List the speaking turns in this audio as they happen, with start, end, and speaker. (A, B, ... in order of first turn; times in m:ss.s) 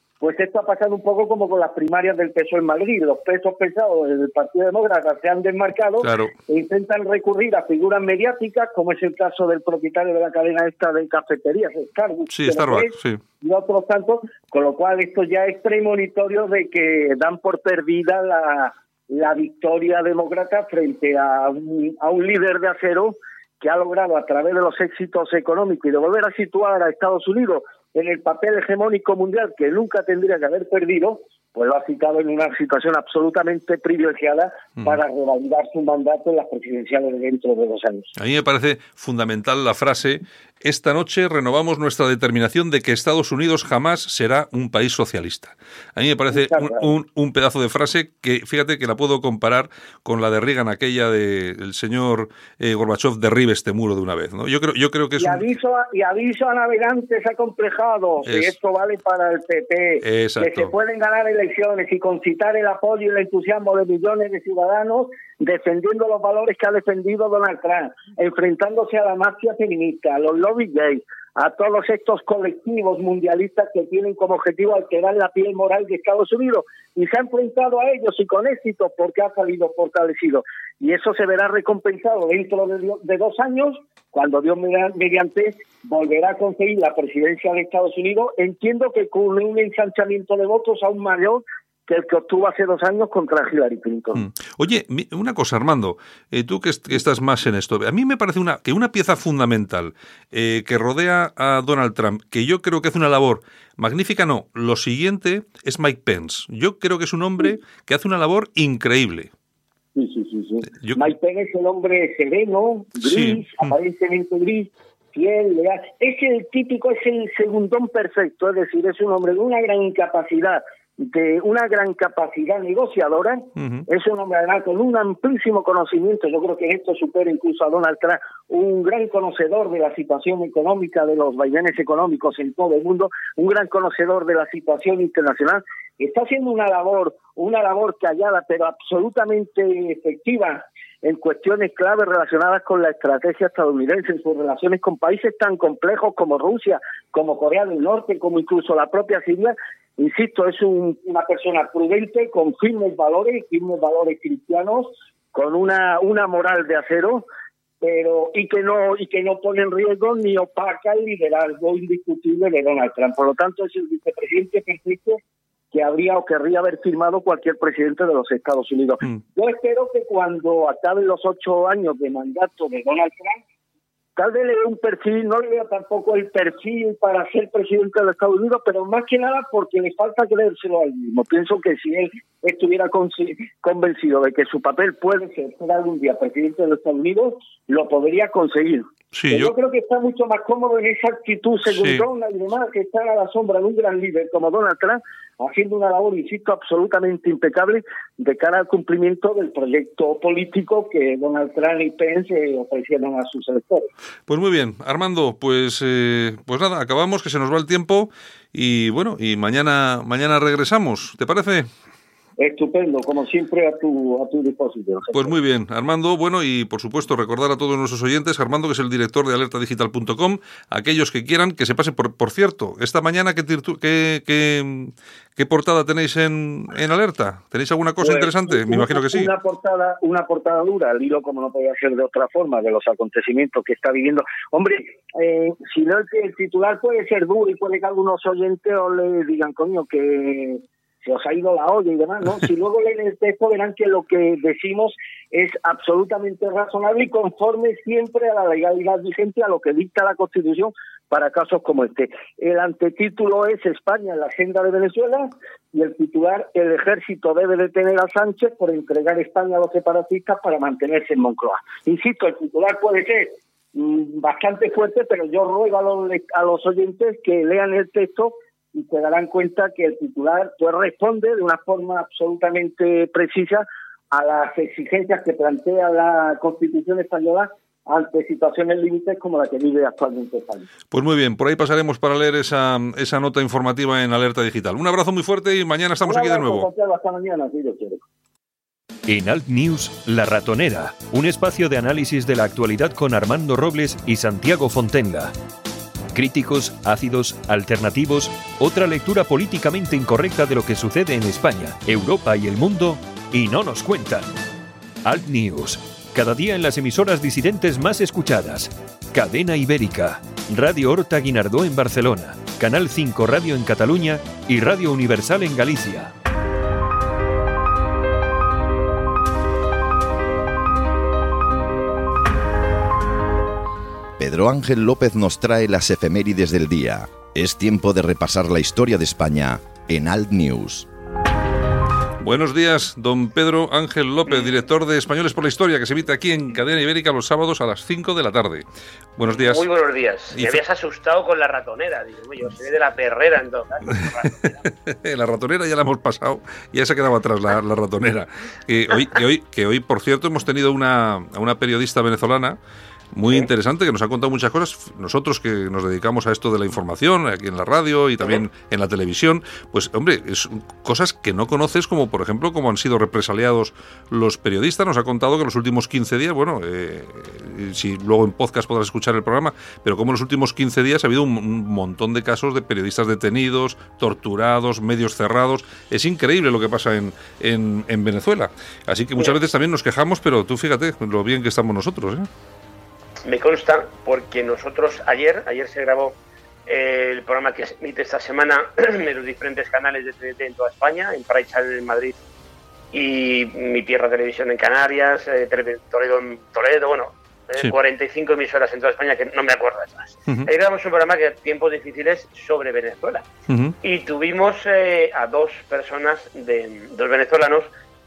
0:00.2-0:38.1 A
0:06.0-0:06.3 B
0:12.3-0:13.2 B
0:38.2-0:55.5 B
0:46.3-0:46.9 A
0:55.2-1:34.3 A
0:58.2-0:58.5 B
1:00.0-1:00.7 B
1:34.1-1:49.3 B
1:49.9-2:37.3 A
1:50.7-1:51.1 B
1:53.0-1:53.7 B
2:03.6-2:03.9 B
2:37.8-2:45.2 A
2:45.7-2:53.4 A
2:54.2-3:23.9 A
3:09.1-3:09.5 B
3:11.7-3:12.1 B
3:24.3-3:31.7 B
3:32.4-3:35.3 A
3:35.1-3:49.3 B
3:48.0-4:40.7 A
4:40.9-4:46.7 B
4:46.0-4:48.0 A
4:49.1-4:55.3 C
4:56.1-5:04.3 C
5:05.0-5:16.1 C
5:24.2-5:30.9 D
5:32.2-5:38.6 B
5:34.3-5:34.5 E
5:39.2-5:39.6 B
5:39.2-5:44.6 E
5:40.3-5:40.6 B
5:44.6-5:52.6 B
5:53.1-6:22.3 B
6:23.2-6:32.2 E
6:32.9-6:43.3 E
6:43.5-6:43.7 B
6:43.8-6:47.7 E